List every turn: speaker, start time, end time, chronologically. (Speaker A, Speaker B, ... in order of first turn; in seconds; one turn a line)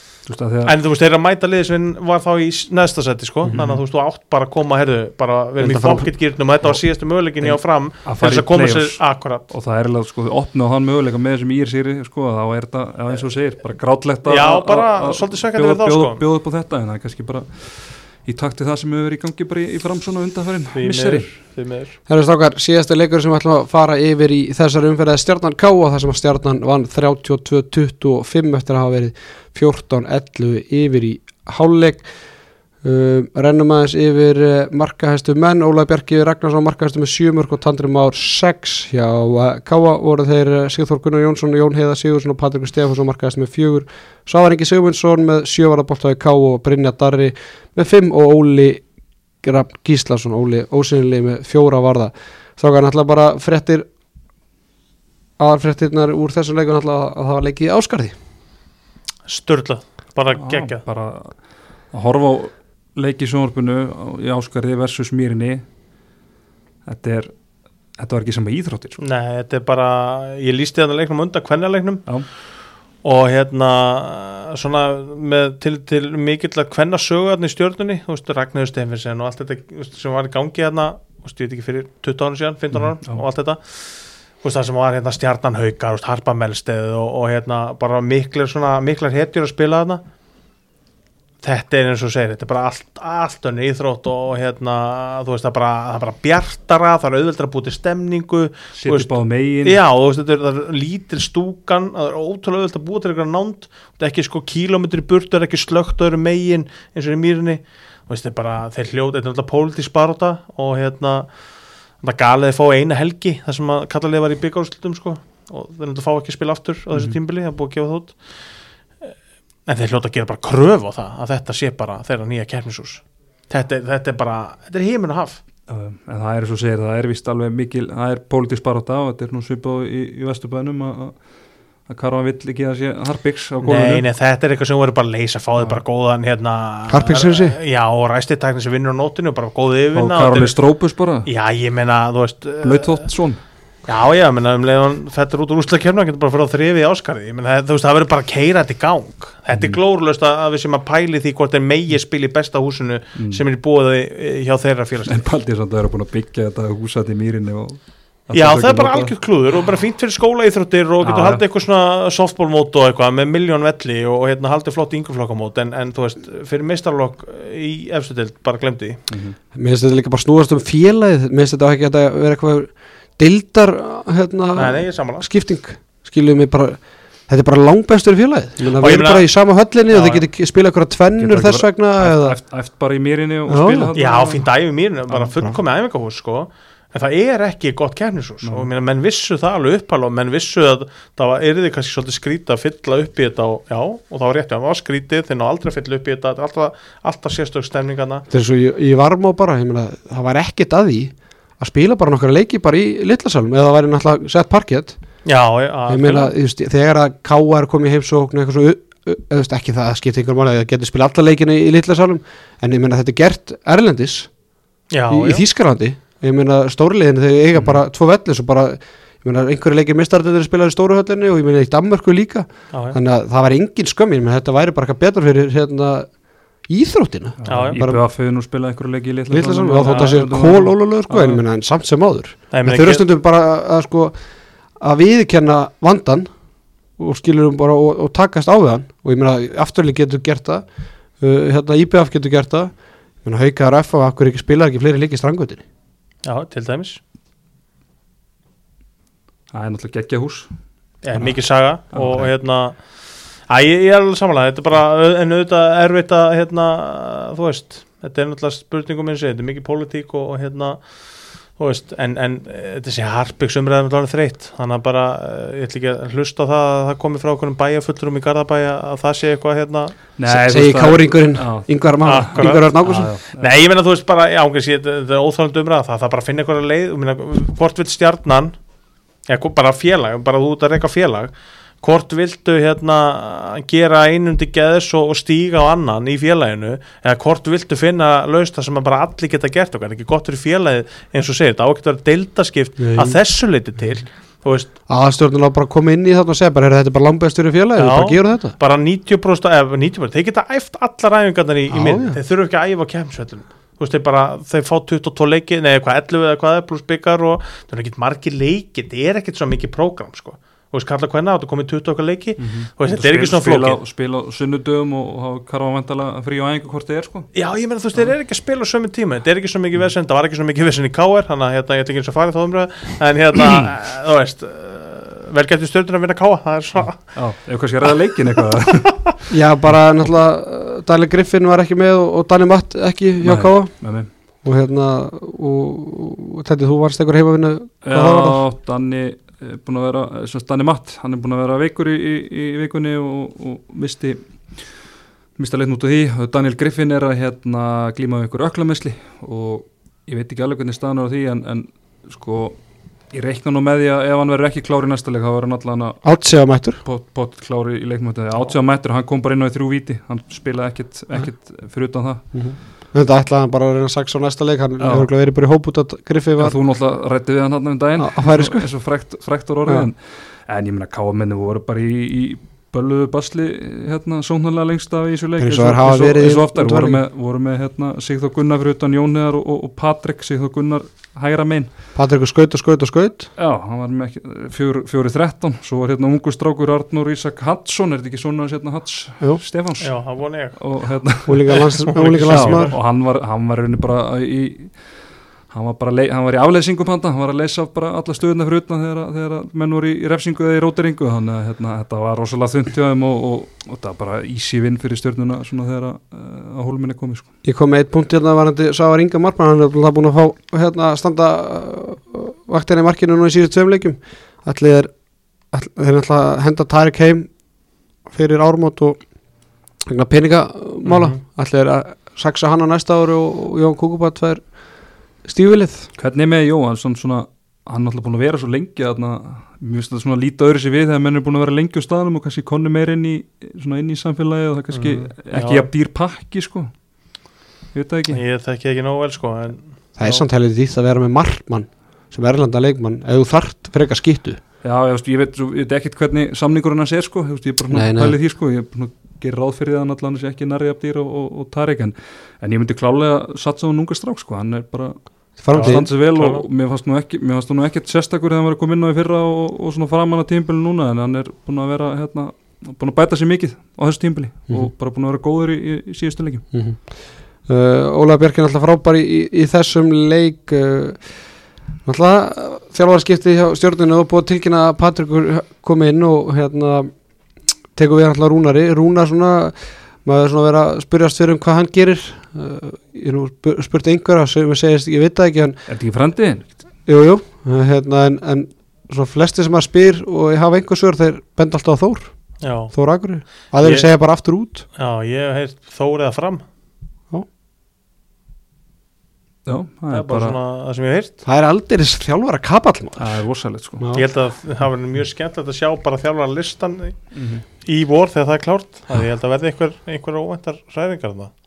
Speaker A: 0.2-0.8
Speaker B: 0.6-9.5
Speaker A: 3.5-3.8
Speaker C: 5.6-6.1
Speaker A: 6.6-21.3
Speaker B: 14.2-16.2
Speaker B: 20.7-21.9
Speaker C: 22.1-32.1
Speaker C: 32.8-48.8
Speaker C: 49.4-53.9
Speaker C: 55.4-58.1
Speaker B: 59.3-60.8
Speaker A: 60.3-61.4
Speaker A: 61.9-65.6
Speaker A: 66.8-67.3
Speaker A: 68.0-69.0
Speaker B: 69.0-72.0
Speaker B: 73.0-90.0
Speaker A: 82.7-83.2
Speaker B: 91.4-111.3
Speaker A: 98.7-99.8
Speaker B: 112.0-118.2
Speaker B: 119.7-125.4
Speaker A: 125.7-131.2
Speaker A: 131.8-134.0
Speaker B: 133.6-140.5
Speaker C: 136.9-137.6
Speaker A: 139.9-141.3
Speaker B: 141.2-143.1
Speaker A: 142.6-143.4
Speaker B: 143.8-155.2
Speaker A: 149.5-149.8
Speaker A: 153.2-153.4
Speaker A: 155.1-159.1
Speaker B: 158.3-169.0
Speaker A: 161.0-161.4
Speaker A: 169.1-169.4
Speaker C: 169.5-182.4
Speaker B: 174.5-175.2
Speaker B: 178.6-179.3
Speaker B: 179.9-180.2
Speaker A: 181.2-184.4
Speaker C: 183.5-183.9
Speaker B: 183.9-198.2
Speaker A: 185.1-185.5
Speaker A: 188.4-188.7
Speaker C: 198.3-204.9
Speaker B: 205.2-206.3
Speaker C: 205.9-214.3
Speaker B: 214.9-215.4
Speaker C: 215.1-226.1
Speaker A: 217.5-217.8
Speaker B: 222.7-223.0
Speaker C: 226.7-228.0
Speaker A: 227.4-231.4
Speaker B: 227.4-227.8
Speaker C: 229.3-234.2
Speaker B: 229.8-230.2
Speaker B: 232.5-233.1
Speaker C: 234.8-236.3
Speaker C: 237.0-240.6
Speaker C: 241.2-242.7
Speaker C: 243.2-245.6
Speaker B: 246.2-247.0
Speaker A: 249.5-250.5
Speaker B: 251.0-252.8
Speaker A: 251.9-252.3
Speaker B: 253.5-260.8
Speaker B: 261.5-269.9
Speaker A: 270.2-273.5
Speaker C: 270.2-273.1
Speaker B: 272.0-272.7
Speaker B: 273.3-278.6
Speaker B: 279.3-294.7
Speaker C: 292.8-293.2
Speaker C: 294.9-298.6
Speaker B: 297.8-313.8
Speaker C: 301.7-302.2
Speaker A: 312.4-317.3
Speaker B: 317.3-327.1
Speaker A: 323.4-323.7
Speaker A: 326.9-329.3
Speaker C: 329.3-338.4
Speaker A: 333.2-334.1
Speaker A: 337.8-344.8
Speaker A: 345.4-352.6
Speaker A: 353.1-356.0
Speaker C: 356.0-356.8
Speaker A: 356.8-362.3
Speaker C: 362.3-366.6
Speaker A: 364.8-365.1
Speaker A: 366.4-381.7
Speaker C: 368.0-368.7
Speaker C: 375.4-377.0
Speaker C: 381.9-383.3
Speaker A: 383.4-391.7
Speaker B: 389.8-390.8
Speaker C: 391.2-392.7
Speaker B: 391.5-392.7
Speaker A: 392.3-407.3
Speaker C: 407.4-414.9
Speaker C: 415.5-417.3
Speaker C: 418.1-419.0
Speaker C: 419.8-424.5
Speaker B: 420.8-421.2
Speaker C: 425.2-425.9
Speaker A: 426.0-436.7
Speaker B: 434.7-435.7
Speaker A: 437.7-438.2
Speaker B: 438.1-440.2
Speaker C: 439.9-444.4
Speaker A: 444.6-466.4
Speaker C: 447.7-448.1
Speaker C: 455.4-455.9
Speaker B: 455.5-456.4
Speaker C: 466.5-471.2
Speaker C: 471.8-476.9
Speaker C: 477.7-485.6
Speaker A: 485.7-486.6
Speaker C: 486.9-494.6
Speaker B: 492.4-492.7
Speaker B: 493.5-493.9
Speaker B: 494.7-496.4
Speaker A: 499.4-500.4
Speaker B: 499.9-501.1
Speaker C: 501.2-503.2
Speaker A: 503.0-503.9
Speaker C: 503.8-504.1
Speaker B: 503.9-511.3
Speaker A: 507.1-507.4